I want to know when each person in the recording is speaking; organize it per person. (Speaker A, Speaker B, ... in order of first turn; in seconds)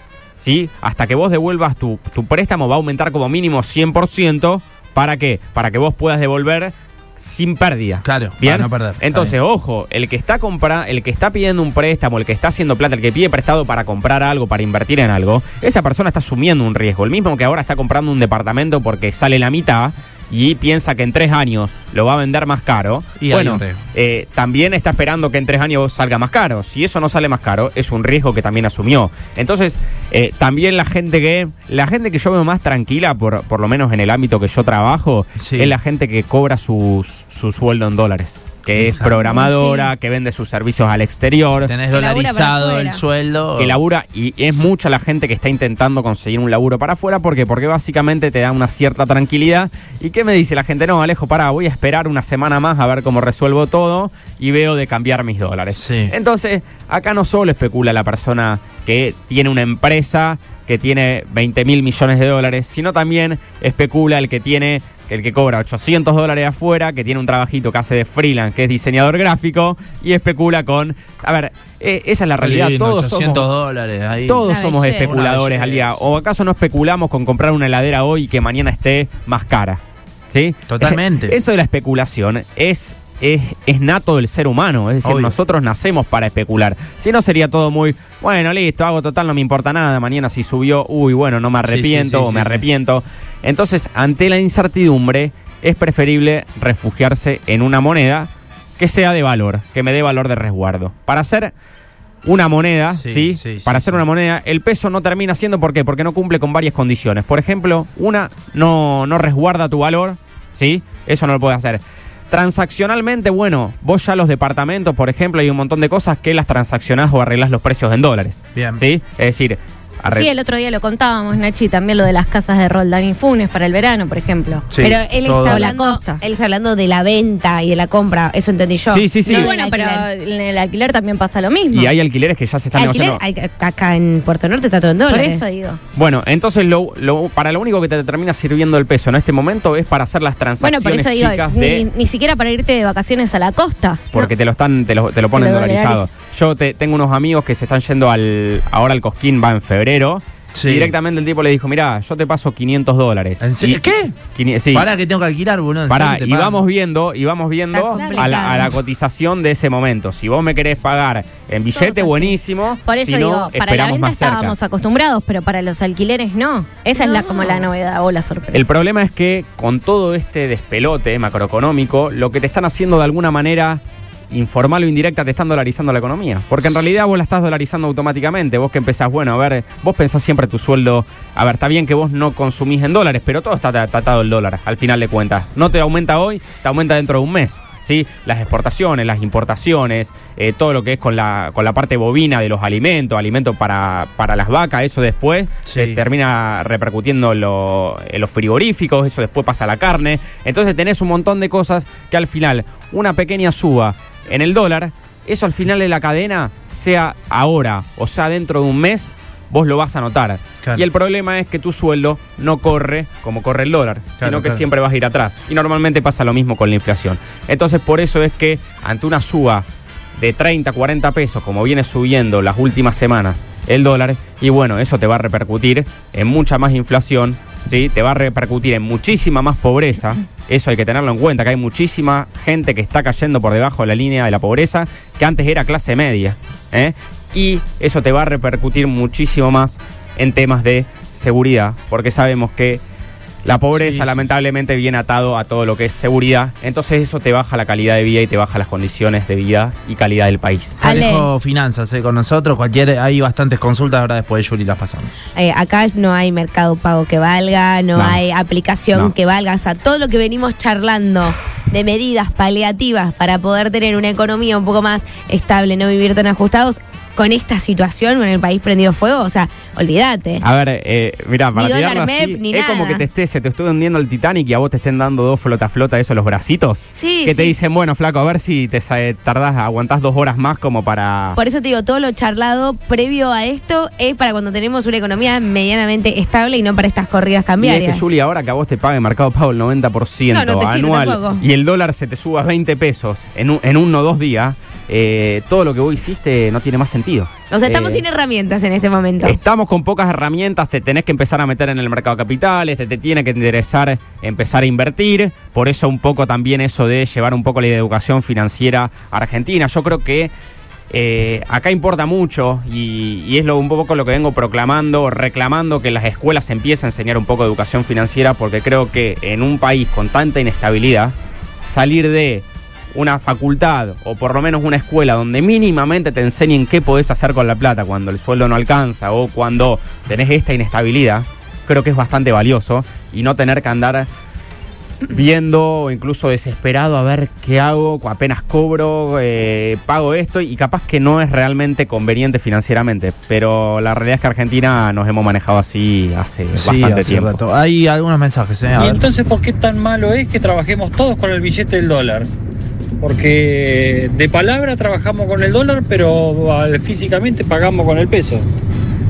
Speaker A: 0.4-41.7, 43.6-73.5, 74.2-101.5, 102.2-120.3, 128.9-129.5, 131.7-133.2, 135.9-141.8, 144.1-154.9, 155.9-164.6, 168.5-219.7, 220.2-242.8, 243.4-250.8, 270.4-281.4, 287.6-298.0, 299.2-310.3, 310.9-334.1, 335.1-347.4
Speaker B: 8.0-9.3, 23.2-23.8, 35.4-35.7, 38.7-39.2, 41.6-43.8, 55.8-56.1, 72.4-74.5, 75.0-76.0, 80.7-81.3, 85.0-85.3, 91.7-92.6, 103.0-104.0, 118.5-118.8, 124.7-125.7, 150.5-150.9, 153.4-154.1, 154.7-156.6, 195.6-196.0, 214.2-214.6, 243.7-244.2, 250.8-255.2, 346.5-349.0
Speaker C: 39.2-39.9, 120.1-124.7, 125.5-126.2, 129.2-131.9, 135.1-135.8, 140.6-144.3, 145.3-146.0, 157.9-158.6, 162.8-168.7
Speaker D: 41.9-43.0, 74.5-75.1, 124.8-130.0, 132.7-135.5, 157.7-158.7, 161.8-162.3, 166.9-167.7, 250.8-251.3, 255.3-270.4, 271.5-273.0, 277.0-277.5, 281.4-288.1, 290.3-291.4, 297.5-299.4
Speaker E: 348.7-352.3, 353.0-358.4